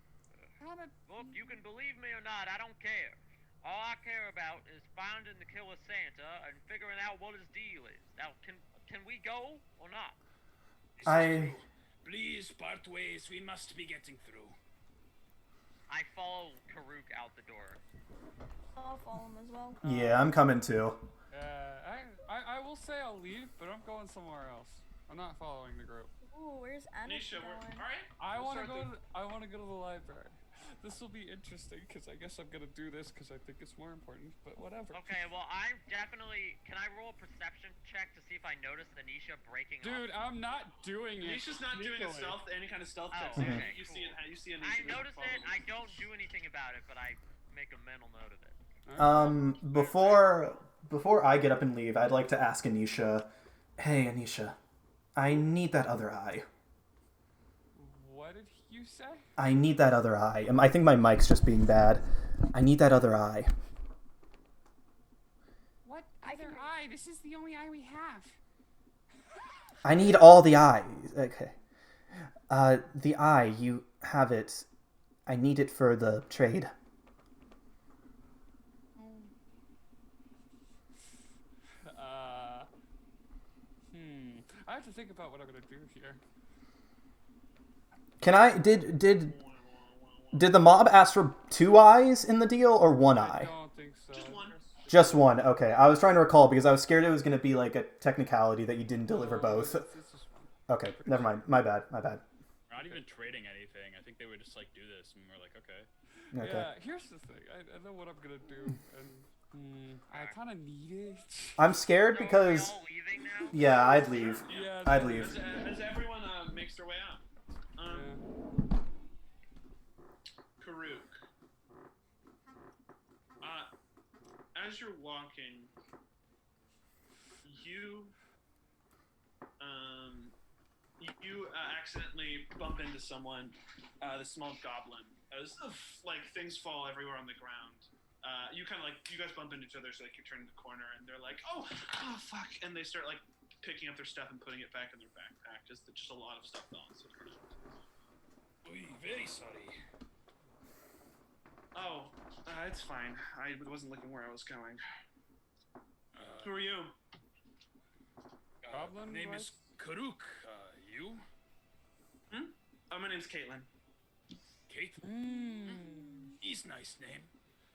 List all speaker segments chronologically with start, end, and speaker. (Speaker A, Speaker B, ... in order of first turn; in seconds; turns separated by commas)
Speaker A: 0.6-1.6, Speaker B: 1.1-10.2, Speaker C: 11.0-14.6, Speaker D: 11.0-11.6, Speaker B: 15.9-17.8, Speaker E: 18.8-19.8, Speaker D: 19.8-21.0, Speaker A: 19.9-20.3, Speaker A: 21.3-26.1, Speaker E: 26.2-27.9, Speaker F: 27.1-28.9, Speaker A: 28.2-35.2, Speaker B: 34.9-40.0, Speaker A: 39.8-42.4, Speaker F: 41.2-45.6, Speaker B: 43.1-48.6, Speaker D: 43.4-43.7, Speaker A: 48.9-49.4, Speaker D: 49.0-54.6, Speaker B: 49.6-50.6, Speaker D: 55.2-56.5, Speaker A: 57.8-59.2, Speaker D: 59.4-63.5, Speaker A: 65.8-68.4, Speaker E: 66.2-66.7, Speaker A: 69.4-70.3, Speaker D: 69.8-71.5, Speaker D: 72.5-74.7, Speaker D: 75.3-76.7, Speaker A: 79.0-79.3, Speaker A: 81.8-82.7, Speaker A: 83.9-86.2, Speaker D: 88.2-89.3, Speaker F: 89.1-90.6, Speaker D: 90.3-93.5, Speaker A: 93.1-95.3, Speaker F: 94.1-94.6, Speaker D: 94.9-99.9, Speaker A: 99.1-101.4, Speaker D: 100.7-102.2, Speaker C: 102.7-105.9, Speaker A: 106.3-111.6, Speaker D: 106.3-106.7, Speaker B: 110.1-110.4, Speaker D: 111.6-112.8, Speaker B: 112.1-113.6, Speaker D: 113.5-115.3, Speaker F: 113.7-117.2, Speaker A: 114.4-115.5, Speaker F: 117.8-118.1, Speaker A: 117.8-118.2, Speaker F: 120.6-121.2, Speaker F: 123.4-123.7, Speaker F: 124.5-125.7, Speaker F: 127.4-128.2, Speaker F: 129.6-130.3, Speaker F: 131.0-147.5, Speaker C: 148.6-149.8, Speaker F: 151.7-154.8, Speaker C: 156.1-156.7, Speaker F: 156.4-156.9, Speaker C: 158.6-161.2, Speaker A: 158.7-159.7, Speaker F: 162.3-163.7, Speaker C: 164.7-165.1, Speaker A: 165.0-166.4, Speaker C: 166.4-167.3